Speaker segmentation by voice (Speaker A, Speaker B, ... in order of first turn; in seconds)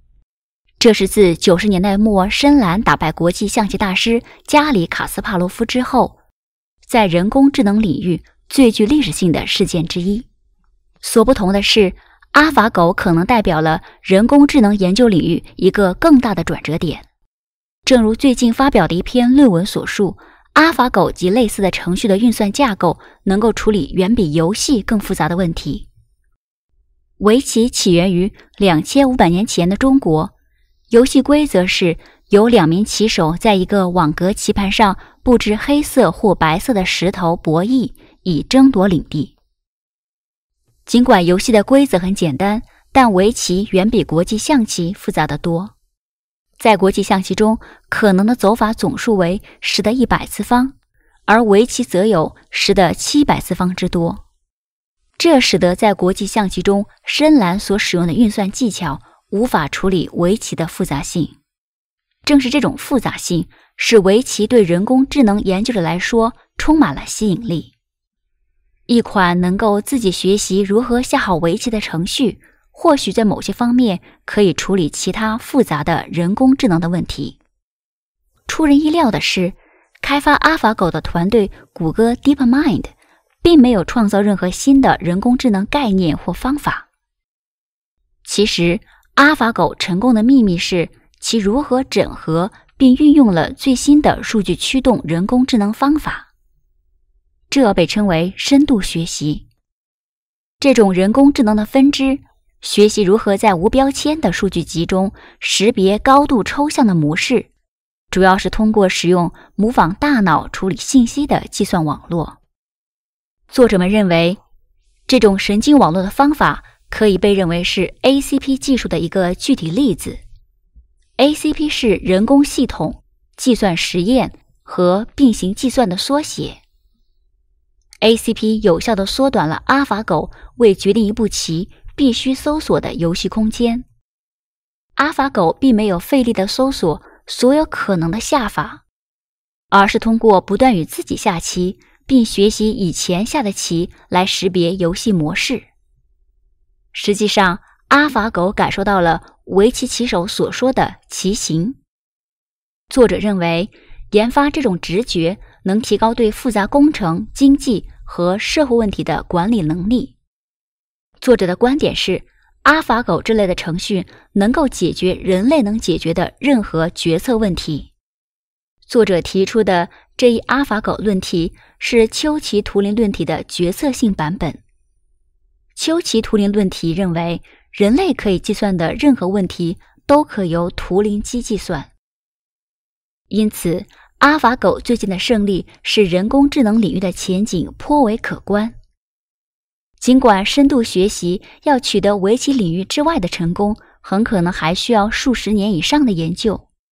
Speaker A: 0.8-6.2, 6.9-10.3, 11.0-17.1, 17.9-25.9, 27.2-30.3, 30.9-39.3, 40.9-45.7, 46.6-50.8, 51.3-54.2, 55.2-61.4, 62.2-67.7, 68.9-77.4, 78.5-86.9, 88.2-96.3, 97.5-99.5, 100.6-107.5, 108.1-112.4, 113.5-114.4, 115.1-120.2, 121.2-126.6, 128.0-133.9, 135.0-138.8, 139.7-145.7, 146.9-151.8, 152.9-160.2, 161.2-167.9, 168.9-174.6, 175.8-181.9, 183.3-188.8, 190.0-196.7